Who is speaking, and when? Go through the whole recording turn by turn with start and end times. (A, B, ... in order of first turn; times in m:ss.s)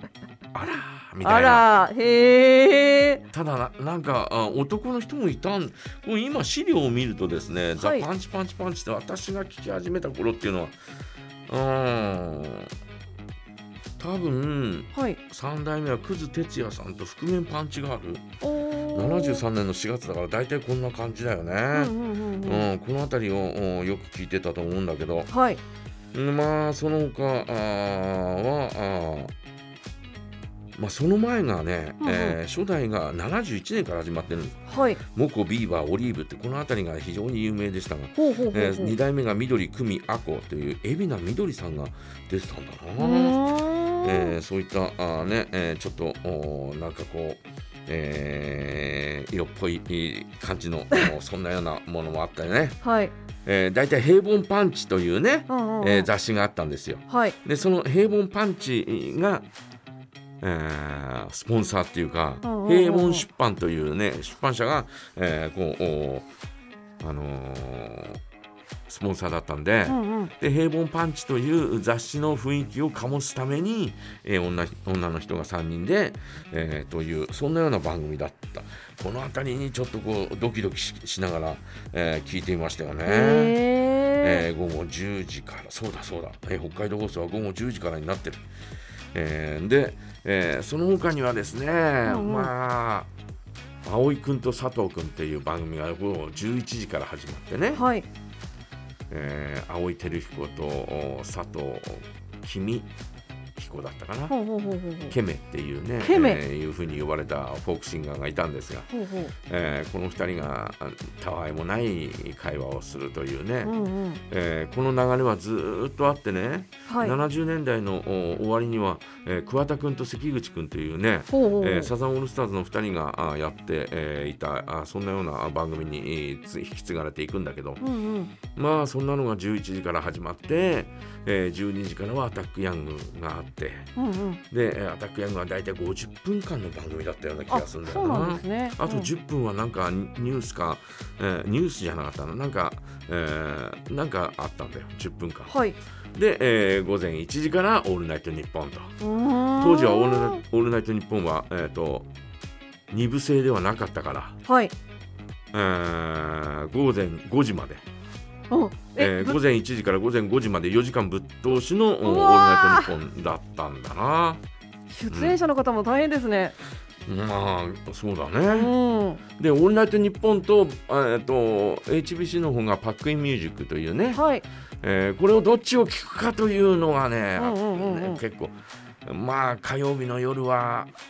0:00.5-0:01.7 A
0:01.2-0:03.2 B
0:03.3-0:10.8 A
0:07.8-0:08.1 B
0:11.5-0:12.7 A
0:14.0-0:18.3 A
0:14.9-0:15.2 B
0:18.4-0:19.4 B
0:18.9-0:25.3 A
0:21.7-0:22.7 B
0:25.3-0:25.6 B
0:26.1-0:29.3 A
0:30.8-0:52.8 A
0:32.0-0:32.4 B
0:34.7-0:35.0 B
0:38.2-0:39.0 B
0:43.0-0:44.3 B
0:52.8-0:53.1 B
0:53.4-0:59.4 A
0:55.5-0:56.1 B
0:57.1-0:57.4 B
1:00.4-1:06.3 A
1:02.4-1:03.2 B
1:07.0-1:08.2 A
1:08.9-1:23.6 A
1:09.9-1:10.3 B
1:23.0-1:24.4 B
1:24.2-1:28.4 A
1:29.1-1:33.1 A
1:32.0-1:32.5 B
1:33.8-1:37.8 A
1:37.7-1:38.1 B
1:39.1-1:42.9 A
1:43.6-1:44.3 A
1:44.3-1:45.2 B
1:45.1-1:48.9 A
1:46.0-1:46.4 B
1:48.9-1:49.3 B
1:49.4-1:53.7 A
1:53.6-1:54.2 B
1:54.3-2:07.8 A
1:56.9-1:57.2 B
2:01.3-2:01.9 B
2:07.8-2:08.3 B
2:08.5-2:13.9 A
2:14.0-2:14.4 B
2:14.5-2:25.5 A
2:17.5-2:19.1 B
2:25.5-2:25.8 B
2:26.1-2:28.9 A
2:29.0-2:30.4 B
2:29.5-2:32.1 A
2:32.9-2:34.4 A
2:34.4-2:34.7 B
2:35.5-2:37.8 A
2:38.5-2:39.4 B
2:39.0-2:44.4 A
2:42.0-2:42.9 B
2:44.9-2:46.5 B
2:45.1-2:45.4 A
2:47.1-2:48.7 A
2:48.5-2:49.2 B
2:49.4-2:54.2 A
2:54.1-2:54.4 B
2:54.8-3:00.9 A
2:57.4-2:58.2 B